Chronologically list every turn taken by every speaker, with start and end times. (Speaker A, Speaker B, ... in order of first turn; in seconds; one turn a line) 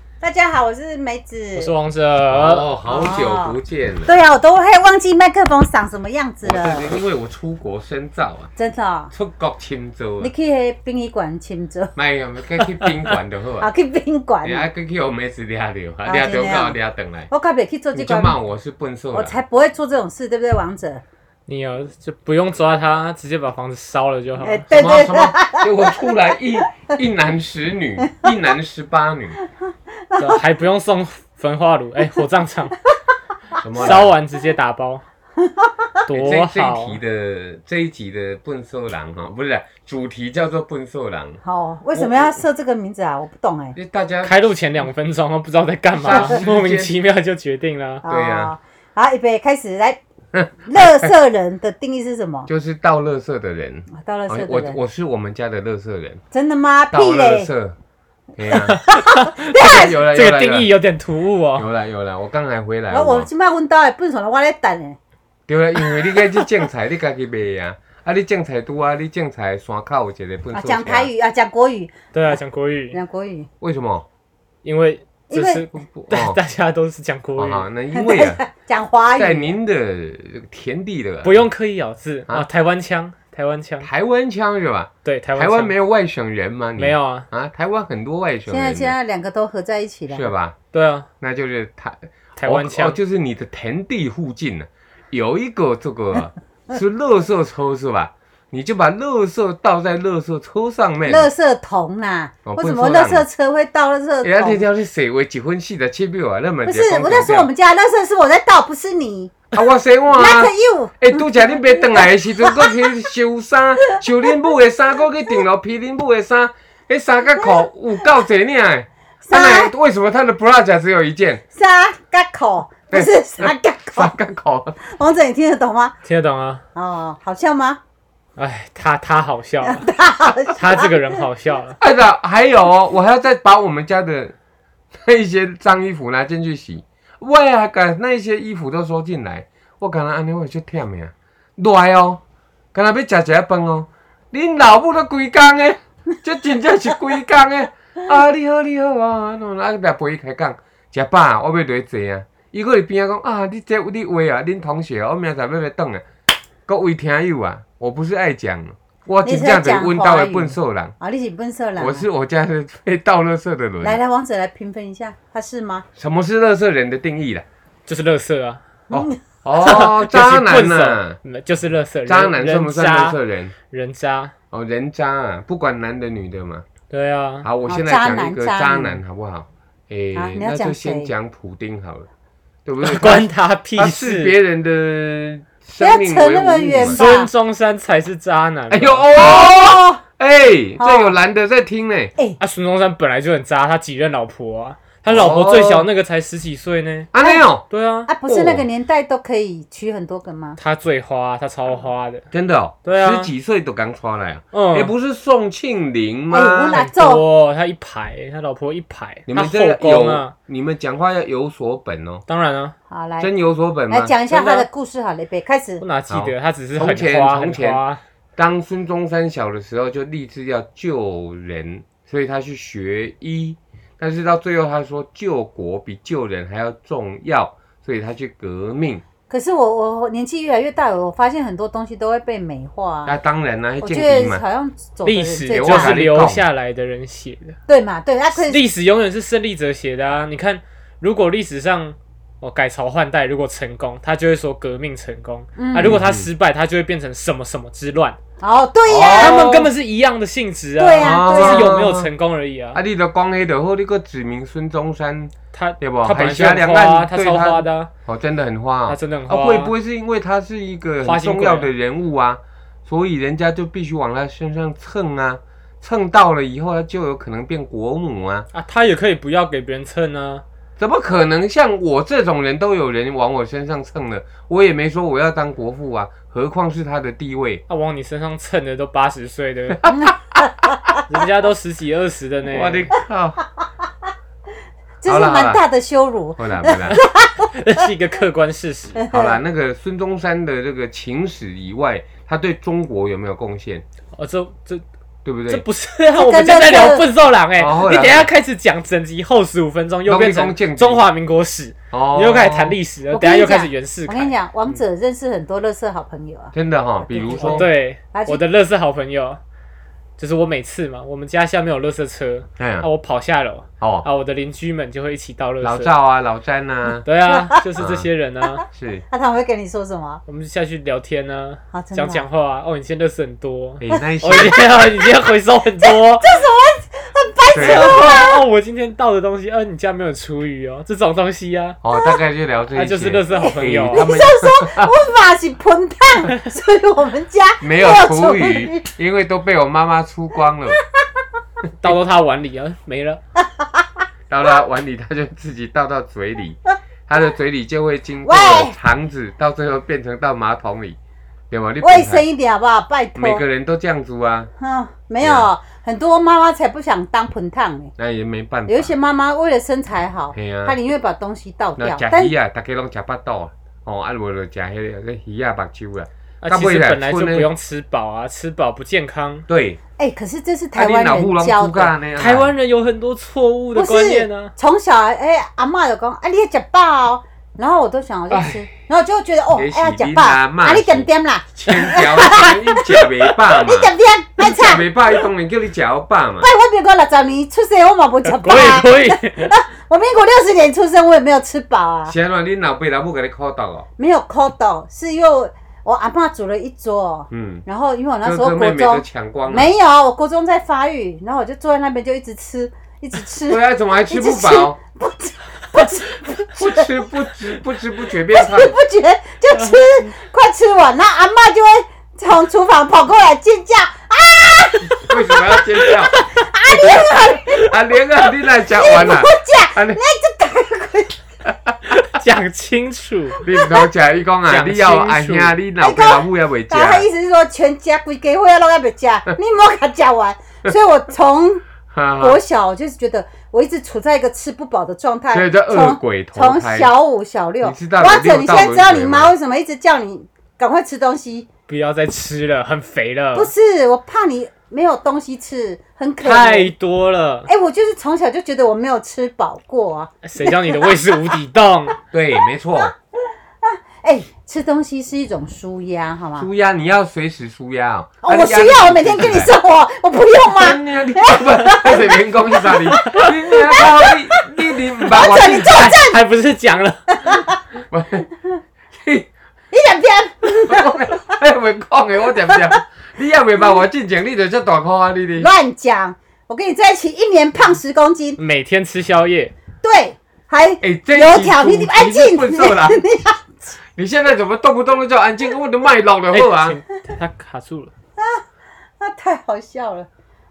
Speaker A: 0.2-1.7
Speaker B: 1.6-2.7
Speaker C: 2.3-4.1
Speaker A: 2.9-6.9
Speaker C: 6.4-8.5
Speaker A: 8.6-9.1
Speaker C: 9.1-10.3
Speaker A: 10.2-11.9
Speaker C: 11.9-13.7
Speaker A: 13.6-14.7
Speaker C: 14.4-17.3
Speaker A: 16.0-16.8
Speaker A: 17.3-18.4
Speaker C: 17.9-19.4
Speaker A: 19.1-21.0
Speaker B: 21.5-24.7
Speaker A: 24.4-25.7
Speaker C: 24.7-29.4
Speaker A: 30.1-30.4
Speaker B: 30.2-32.8
Speaker C: 33.6-34.1
Speaker B: 33.8-35.0
Speaker A: 35.4-35.8
Speaker B: 36.1-37.0
Speaker C: 36.1-41.4
Speaker A: 41.4-43.8
Speaker C: 41.9-42.4
Speaker C: 43.7-44.4
Speaker B: 44.2-48.0
Speaker C: 45.9-47.0
Speaker A: 48.0-50.0
Speaker C: 48.0-48.5
Speaker C: 50.3-51.1
Speaker A: 50.6-52.5
Speaker C: 52.5-56.2
Speaker A: 53.9-54.8
Speaker A: 56.3-57.5
Speaker C: 56.9-57.8
Speaker C: 58.4-58.8
Speaker B: 58.5-61.6
Speaker A: 58.9-60.0
Speaker C: 59.5-60.7
Speaker C: 61.5-63.3
Speaker A: 62.9-65.0
Speaker C: 65.5-71.1
Speaker A: 65.9-66.4
Speaker A: 70.5-71.9
Speaker B: 72.1-73.0
Speaker A: 72.9-73.5
Speaker C: 73.6-74.0
Speaker B: 74.6-77.7
Speaker A: 75.3-75.7
Speaker C: 75.8-76.4
Speaker C: 77.4-78.4
Speaker A: 77.9-79.5
Speaker C: 79.2-81.4
Speaker B: 81.2-83.9
Speaker C: 83.8-89.0
Speaker B: 85.0-85.7
Speaker B: 86.8-87.2
Speaker A: 88.5-90.3
Speaker C: 90.1-90.5
Speaker B: 90.7-91.1
Speaker C: 91.2-101.3
Speaker B: 92.4-93.0
Speaker A: 101.0-104.6
Speaker C: 102.4-103.2
Speaker C: 104.2-107.5
Speaker A: 106.6-109.3
Speaker C: 109.5-121.4
Speaker A: 110.1-111.3
Speaker A: 111.8-112.0
Speaker A: 119.2-119.7
Speaker A: 121.5-124.1
Speaker C: 122.9-124.8
Speaker A: 124.8-125.9
Speaker B: 126.0-126.6
Speaker A: 126.7-127.8
Speaker B: 128.4-129.9
Speaker A: 129.6-130.9
Speaker B: 130.6-131.8
Speaker C: 131.8-134.3
Speaker C: 134.9-142.2
Speaker C: 142.7-156.0
Speaker C: 156.7-160.9
Speaker A: 159.2-162.1
Speaker C: 161.8-164.0
Speaker A: 163.8-165.8
Speaker C: 166.0-167.4
Speaker B: 167.9-168.6
Speaker C: 168.9-171.2
Speaker A: 168.9-169.2
Speaker B: 169.6-173.2
Speaker C: 172.1-173.5
Speaker B: 173.7-174.3
Speaker C: 174.5-176.7
Speaker B: 176.9-177.5
Speaker C: 177.4-182.1
Speaker A: 177.7-179.0
Speaker A: 180.1-181.1
Speaker C: 182.7-187.0
Speaker B: 182.8-184.3
Speaker A: 185.8-187.3
Speaker B: 186.8-189.0
Speaker C: 188.7-192.1
Speaker A: 189.1-190.0
Speaker A: 190.8-191.1
Speaker B: 192.4-197.1
Speaker C: 195.1-195.9
Speaker C: 197.1-197.6
Speaker B: 197.7-198.1
Speaker A: 198.1-200.6
Speaker C: 198.2-198.6
Speaker B: 200.6-202.2
Speaker C: 202.3-206.8
Speaker B: 202.8-203.3
Speaker B: 204.5-204.9
Speaker A: 206.3-207.2
Speaker B: 206.7-210.3
Speaker C: 209.3-212.2
Speaker B: 212.3-212.7
Speaker A: 212.9-213.3
Speaker C: 213.2-214.7
Speaker A: 213.9-215.8
Speaker B: 215.8-218.0
Speaker C: 216.1-217.8
Speaker C: 218.4-229.0
Speaker A: 229.3-233.2
Speaker C: 233.1-234.4
Speaker A: 233.8-235.9
Speaker B: 235.0-237.6
Speaker C: 235.5-236.4
Speaker A: 237.7-238.6
Speaker B: 238.3-248.2
Speaker A: 245.6-246.0
Speaker C: 245.8-246.3
Speaker A: 248.4-249.5
Speaker C: 248.9-249.7
Speaker B: 249.1-252.8
Speaker A: 250.8-251.7
Speaker C: 251.0-252.1
Speaker C: 252.7-268.4
Speaker B: 255.5-257.9
Speaker B: 258.9-259.7
Speaker B: 261.0-261.7
Speaker B: 268.5-270.4
Speaker C: 270.8-277.6
Speaker B: 277.7-279.9
Speaker A: 279.9-280.5
Speaker B: 281.1-282.9
Speaker C: 282.5-283.4
Speaker A: 285.0-287.5
Speaker C: 285.1-285.6
Speaker C: 286.4-287.0
Speaker B: 287.4-289.0
Speaker A: 288.9-289.4
Speaker C: 289.1-293.8
Speaker B: 294.1-294.8
Speaker C: 295.2-295.6
Speaker B: 295.5-304.3
Speaker A: 296.1-297.1
Speaker C: 297.6-298.3
Speaker C: 300.1-301.0
Speaker C: 301.9-302.8
Speaker A: 303.1-306.5
Speaker C: 306.5-307.7
Speaker A: 307.1-308.4
Speaker B: 307.3-309.4
Speaker B: 310.2-315.9
Speaker C: 312.6-312.9
Speaker C: 313.8-314.1
Speaker C: 315.6-317.1
Speaker B: 317.0-318.6
Speaker A: 317.3-317.6
Speaker C: 317.8-318.1
Speaker C: 318.7-319.0
Speaker A: 319.1-320.2
Speaker B: 320.3-326.2
Speaker A: 321.7-322.2
Speaker C: 323.8-324.7
Speaker A: 325.8-328.4
Speaker C: 327.5-328.1
Speaker B: 327.6-331.8
Speaker C: 331.8-334.9
Speaker B: 332.7-334.1
Speaker A: 333.3-338.9
Speaker C: 337.6-340.8
Speaker B: 341.8-343.2
Speaker A: 343.4-343.9
Speaker C: 344.3-351.0
Speaker A: 348.2-348.7
Speaker C: 351.5-352.2
Speaker A: 351.8-353.4
Speaker C: 353.1-354.5
Speaker A: 354.6-357.9
Speaker C: 355.2-355.5
Speaker C: 358.0-358.9
Speaker A: 358.7-362.3
Speaker C: 360.3-360.8
Speaker C: 361.8-367.5
Speaker B: 366.4-369.4
Speaker C: 369.5-369.8
Speaker A: 370.0-371.9
Speaker C: 370.7-372.5
Speaker B: 372.1-374.5
Speaker A: 373.7-384.9
Speaker C: 378.3-378.7
Speaker C: 379.5-386.5
Speaker A: 386.4-392.1
Speaker B: 388.2-389.5
Speaker C: 392.1-393.9
Speaker A: 394.0-407.0
Speaker C: 397.3-397.6
Speaker C: 398.2-399.7
Speaker C: 403.5-404.8
Speaker C: 406.5-408.8
Speaker A: 408.3-415.6
Speaker C: 415.0-420.0
Speaker A: 416.1-417.6
Speaker A: 418.7-421.2
Speaker C: 421.5-421.8
Speaker B: 422.0-423.4
Speaker C: 423.4-427.1
Speaker B: 424.4-425.6
Speaker A: 425.8-431.6
Speaker C: 431.9-432.4
Speaker A: 432.2-441.5
Speaker C: 435.3-436.9
Speaker C: 437.6-439.3
Speaker B: 441.7-443.5
Speaker A: 443.3-446.7
Speaker B: 446.2-447.5
Speaker A: 447.5-451.1
Speaker B: 450.2-452.0
Speaker C: 452.1-452.9
Speaker A: 453.6-456.5
Speaker C: 456.4-459.5
Speaker A: 458.2-464.4
Speaker C: 460.4-465.9
Speaker A: 465.0-466.2
Speaker B: 465.6-467.1
Speaker A: 467.2-467.5
Speaker C: 467.9-468.3
Speaker C: 468.9-469.3
Speaker A: 469.7-471.1
Speaker C: 470.6-475.5
Speaker A: 475.4-478.4
Speaker B: 478.4-479.5
Speaker A: 479.8-483.4
Speaker C: 480.8-483.0
Speaker C: 483.9-486.8
Speaker B: 486.3-487.9
Speaker A: 488.2-488.4
Speaker A: 489.0-490.1